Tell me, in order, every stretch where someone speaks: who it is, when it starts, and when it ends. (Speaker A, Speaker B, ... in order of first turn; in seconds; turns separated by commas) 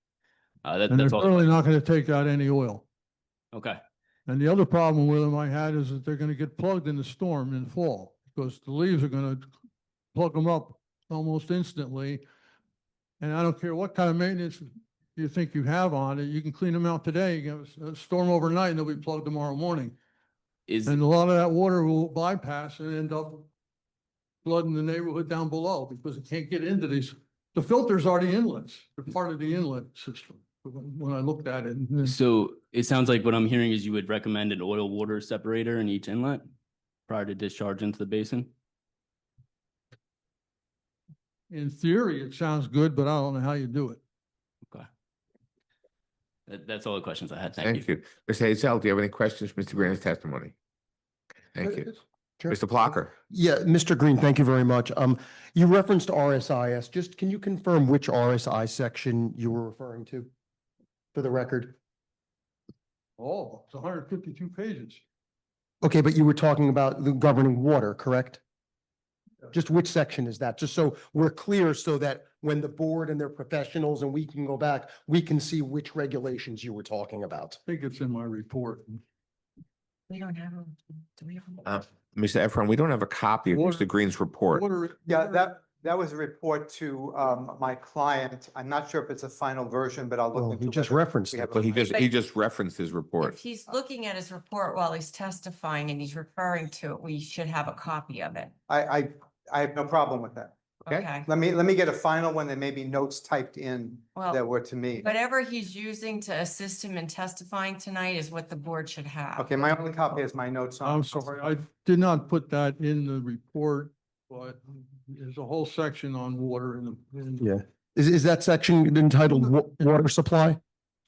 Speaker A: 0.6-1.5, Speaker B: 0.9-2.8, Speaker A: 3.5-3.8, Speaker B: 4.3-9.5, Speaker B: 10.1-12.2, Speaker B: 13.2-19.9, Speaker A: 20.7-21.0, Speaker B: 20.9-23.5, Speaker B: 24.4-32.1, Speaker A: 32.0-36.4, Speaker A: 37.1-38.5, Speaker B: 41.5-44.0, Speaker A: 46.5-47.9, Speaker C: 47.6-50.5, Speaker C: 51.5-51.9, Speaker D: 51.6-60.3, Speaker C: 52.5-53.1, Speaker D: 61.1-61.7, Speaker B: 63.2-65.0, Speaker D: 65.8-68.4, Speaker D: 69.5-77.6, Speaker B: 77.7-79.0, Speaker E: 80.1-81.7, Speaker C: 81.7-84.6, Speaker B: 83.5-83.9, Speaker B: 84.5-85.6, Speaker F: 85.1-92.0, Speaker D: 90.3-91.6, Speaker C: 91.5-93.4, Speaker E: 93.2-98.5, Speaker F: 98.7-100.5, Speaker C: 100.9-101.2, Speaker E: 100.9-101.3, Speaker F: 101.2-105.1, Speaker E: 105.0-109.5, Speaker F: 109.4-111.5, Speaker B: 110.8-117.5, Speaker D: 117.4-120.6